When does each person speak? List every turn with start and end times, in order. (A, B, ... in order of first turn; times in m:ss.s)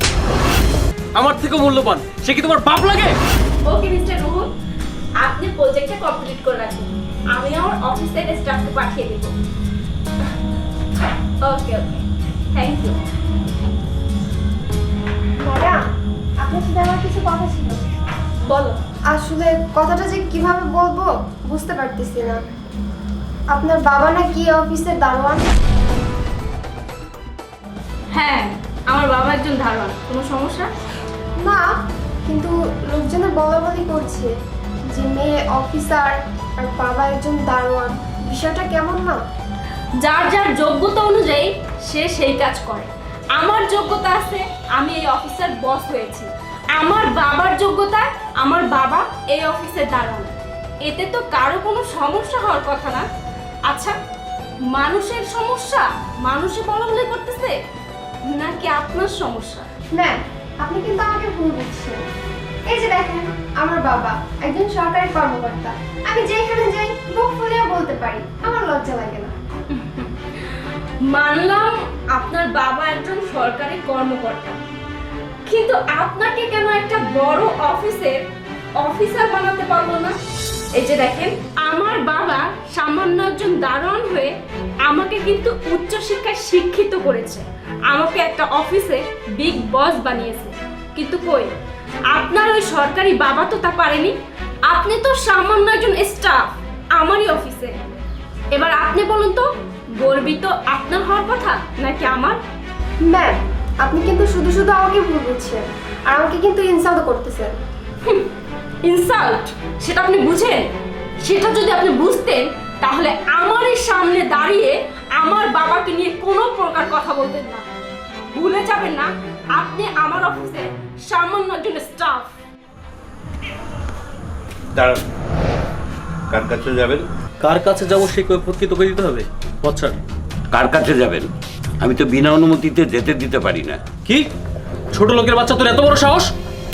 0:01.2-0:03.1 A
0:03.6-0:04.5 B
0:05.2-0:09.3 B
0:11.4-0:13.0 B
0:15.4-0:15.8 C
0:16.4-0:17.8 C
0:18.4-0:18.8 B
0:19.1-0:22.4 C
0:23.5-0:25.5 C
0:28.1-0:30.7 B
0:31.4-0:31.7 C
0:32.2-0:34.3 C
0:34.9-0:39.2 C
0:40.0-0:50.3 B
0:50.8-0:53.0 B
0:53.7-0:54.0 B
0:54.7-0:57.6 B
0:58.3-0:59.7 B
0:59.9-1:02.0 C
1:02.7-1:09.3 C
1:09.7-1:10.1 B
1:11.0-1:14.6 B
1:15.5-1:18.2 B
1:18.8-1:20.2 B
1:20.7-1:24.3 B
1:24.8-1:31.5 B
1:32.1-1:34.1 B
1:34.7-1:36.4 B
1:37.0-1:37.7 B
1:38.5-1:39.4 B
1:40.0-1:42.4 B
1:43.1-1:47.5 C
1:48.8-1:50.7 B
1:51.2-1:57.6 B
1:58.3-2:02.3 B
2:04.7-2:05.0 D
2:06.3-2:07.0 D
2:07.4-2:10.0 A
2:10.5-2:11.3 D
2:11.8-2:13.8 D
2:14.9-2:16.3 A